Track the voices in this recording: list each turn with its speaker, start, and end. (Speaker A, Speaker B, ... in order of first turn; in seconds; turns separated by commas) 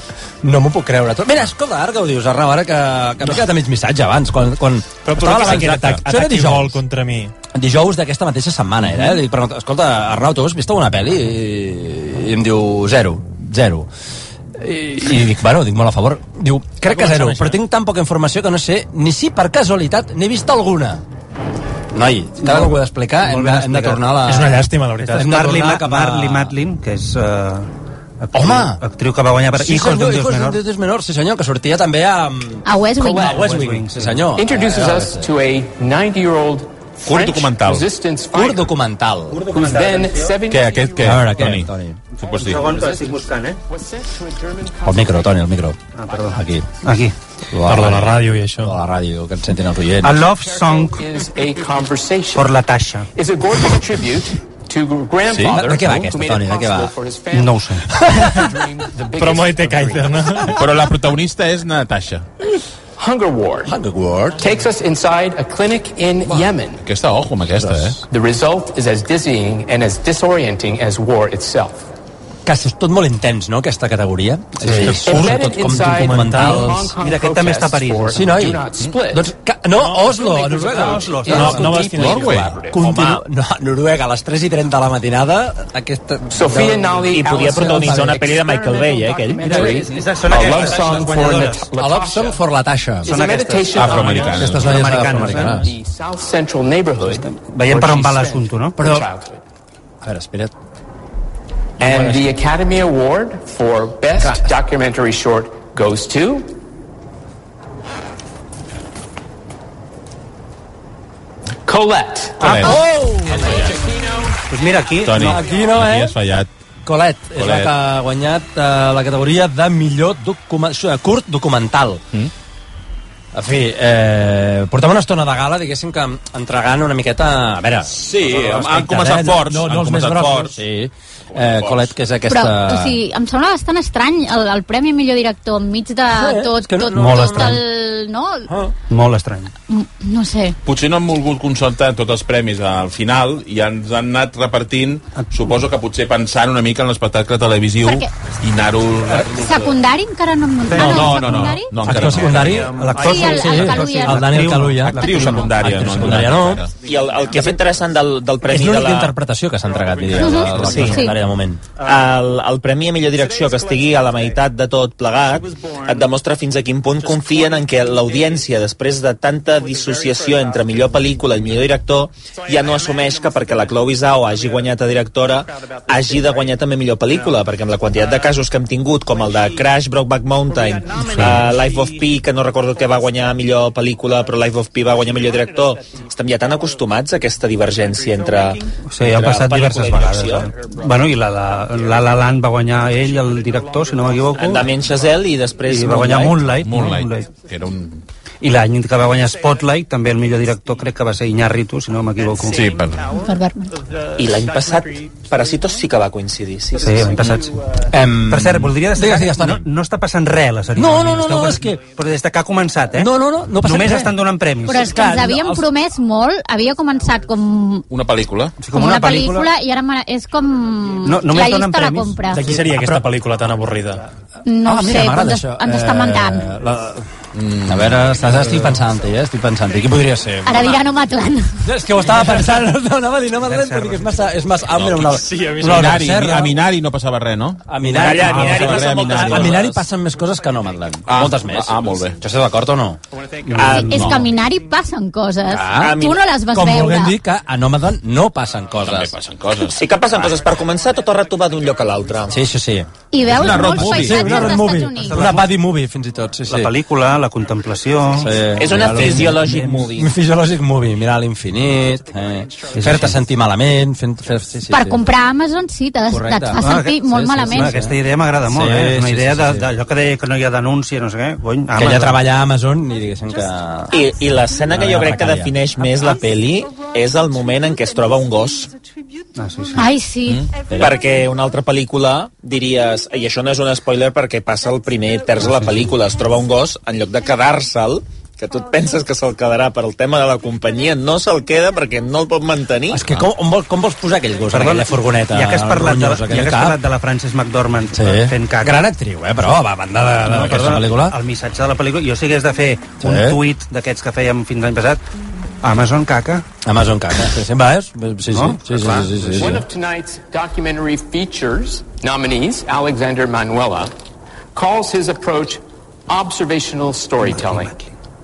Speaker A: 0.4-6.8, Speaker B: 5.0-7.3, Speaker C: 5.4-6.0, Speaker A: 7.5-13.9, Speaker A: 14.6-21.0, Speaker B: 16.9-17.6, Speaker A: 21.9-26.5, Speaker D: 22.4-24.1, Speaker B: 24.2-25.3, Speaker D: 25.1-27.7, Speaker D: 28.2-30.6, Speaker A: 28.3-28.8, Speaker A: 29.6-35.3, Speaker E: 32.6-33.4, Speaker D: 33.1-34.3, Speaker F: 34.3-38.7, Speaker C: 37.0-37.9, Speaker A: 38.3-39.5, Speaker D: 39.3-40.4, Speaker F: 39.5-41.2, Speaker C: 40.5-42.7, Speaker A: 41.0-42.0, Speaker F: 42.2-45.3, Speaker D: 42.3-43.6, Speaker A: 44.8-45.8, Speaker D: 46.0-47.1, Speaker F: 46.0-46.4, Speaker A: 46.3-46.7, Speaker A: 47.5-50.3, Speaker B: 47.6-48.8, Speaker D: 50.0-51.0, Speaker F: 50.4-52.6, Speaker D: 52.3-53.1, Speaker F: 53.1-60.2, Speaker C: 55.2-55.6, Speaker A: 55.4-56.9, Speaker D: 57.3-57.9, Speaker B: 58.1-58.5, Speaker B: 59.2-60.6, Speaker C: 60.5-62.2, Speaker F: 63.0-63.7, Speaker A: 63.7-64.5, Speaker F: 64.3-66.8, Speaker C: 66.3-68.0, Speaker A: 67.5-68.0, Speaker F: 68.1-71.9, Speaker A: 72.5-76.9, Speaker D: 74.6-75.1, Speaker F: 74.9-79.3, Speaker B: 76.3-76.7, Speaker D: 77.0-78.3, Speaker A: 78.1-81.9, Speaker D: 80.1-81.9, Speaker F: 80.7-82.8, Speaker B: 81.3-82.5, Speaker C: 81.9-82.6, Speaker A: 82.7-88.3, Speaker F: 86.3-92.4, Speaker G: 87.0-89.7, Speaker D: 89.4-91.7, Speaker A: 91.8-93.2, Speaker F: 93.0-99.4, Speaker D: 93.0-95.7, Speaker C: 93.7-94.8, Speaker A: 93.8-95.7, Speaker D: 97.0-98.9, Speaker A: 98.8-99.0, Speaker A: 100.0-100.5, Speaker F: 101.8-106.5, Speaker B: 101.8-102.2, Speaker F: 111.7-114.5, Speaker C: 112.4-113.8, Speaker D: 112.4-112.8, Speaker A: 112.6-113.6, Speaker D: 114.5-115.4, Speaker C: 115.0-116.5, Speaker A: 115.2-116.1, Speaker A: 116.8-122.0, Speaker C: 117.3-117.7, Speaker A: 123.3-133.0, Speaker C: 127.9-130.6, Speaker C: 131.3-131.9, Speaker E: 132.3-138.5, Speaker A: 136.1-137.6, Speaker D: 136.9-137.6, Speaker A: 138.5-138.7, Speaker D: 138.9-139.5, Speaker E: 139.7-140.6, Speaker C: 140.6-149.8, Speaker D: 145.2-145.5, Speaker E: 147.8-148.1, Speaker E: 149.3-151.7, Speaker D: 150.7-151.3, Speaker C: 150.7-152.8, Speaker A: 150.8-156.7, Speaker D: 152.5-156.1, Speaker E: 152.9-154.4, Speaker C: 154.9-156.7, Speaker G: 156.8-159.1, Speaker A: 158.4-161.6, Speaker E: 160.2-161.2, Speaker G: 160.6-161.0, Speaker G: 161.8-190.5, Speaker F: 163.2-164.3, Speaker F: 165.3-166.1, Speaker F: 167.0-168.4, Speaker F: 169.6-171.6, Speaker F: 172.3-173.7, Speaker F: 175.6-176.3, Speaker D: 188.9-194.7, Speaker G: 194.4-196.5, Speaker D: 195.7-197.3, Speaker C: 196.6-198.0, Speaker D: 198.4-202.7, Speaker C: 202.5-203.2, Speaker E: 203.2-203.7, Speaker G: 204.2-207.2, Speaker D: 206.8-207.5, Speaker A: 207.9-209.6, Speaker D: 208.2-213.1, Speaker A: 210.7-211.8, Speaker A: 212.9-214.2, Speaker D: 213.6-214.9, Speaker E: 214.7-217.8, Speaker A: 214.8-215.7, Speaker C: 217.9-218.6, Speaker D: 218.6-219.5, Speaker E: 218.7-222.4, Speaker D: 221.0-222.8, Speaker B: 222.3-224.1, Speaker A: 222.6-223.0, Speaker E: 224.4-226.5, Speaker A: 224.6-227.1, Speaker C: 227.3-228.2, Speaker A: 227.7-230.8, Speaker E: 230.4-231.6, Speaker A: 231.6-236.6, Speaker D: 233.4-234.3, Speaker C: 234.7-239.7, Speaker B: 235.3-236.1, Speaker A: 237.7-243.0, Speaker G: 237.8-239.7, Speaker C: 241.0-242.2, Speaker D: 243.4-244.2, Speaker G: 243.6-244.1, Speaker E: 243.6-247.2, Speaker C: 243.8-244.2, Speaker A: 245.4-249.2, Speaker G: 245.8-246.3, Speaker C: 248.8-250.5, Speaker G: 249.7-252.4, Speaker A: 252.3-256.7, Speaker E: 253.1-255.2, Speaker C: 253.2-254.4, Speaker D: 254.3-255.6, Speaker D: 256.5-258.3, Speaker A: 258.2-265.0, Speaker G: 258.6-260.1, Speaker D: 262.7-263.2, Speaker E: 264.7-267.8, Speaker A: 266.1-268.0, Speaker D: 266.6-272.2, Speaker A: 268.5-269.7, Speaker A: 271.7-273.9, Speaker G: 273.9-278.7, Speaker A: 274.6-275.5, Speaker D: 279.4-279.9, Speaker E: 279.7-280.4, Speaker C: 280.2-280.5, Speaker A: 280.7-281.0, Speaker G: 280.7-293.1, Speaker A: 292.9-296.8, Speaker D: 294.5-298.8, Speaker A: 297.9-301.2, Speaker D: 300.2-305.0, Speaker A: 303.0-303.4, Speaker D: 305.6-306.4, Speaker A: 306.6-309.6, Speaker D: 308.3-309.5, Speaker F: 309.3-313.9, Speaker F: 314.5-317.7, Speaker D: 317.2-317.9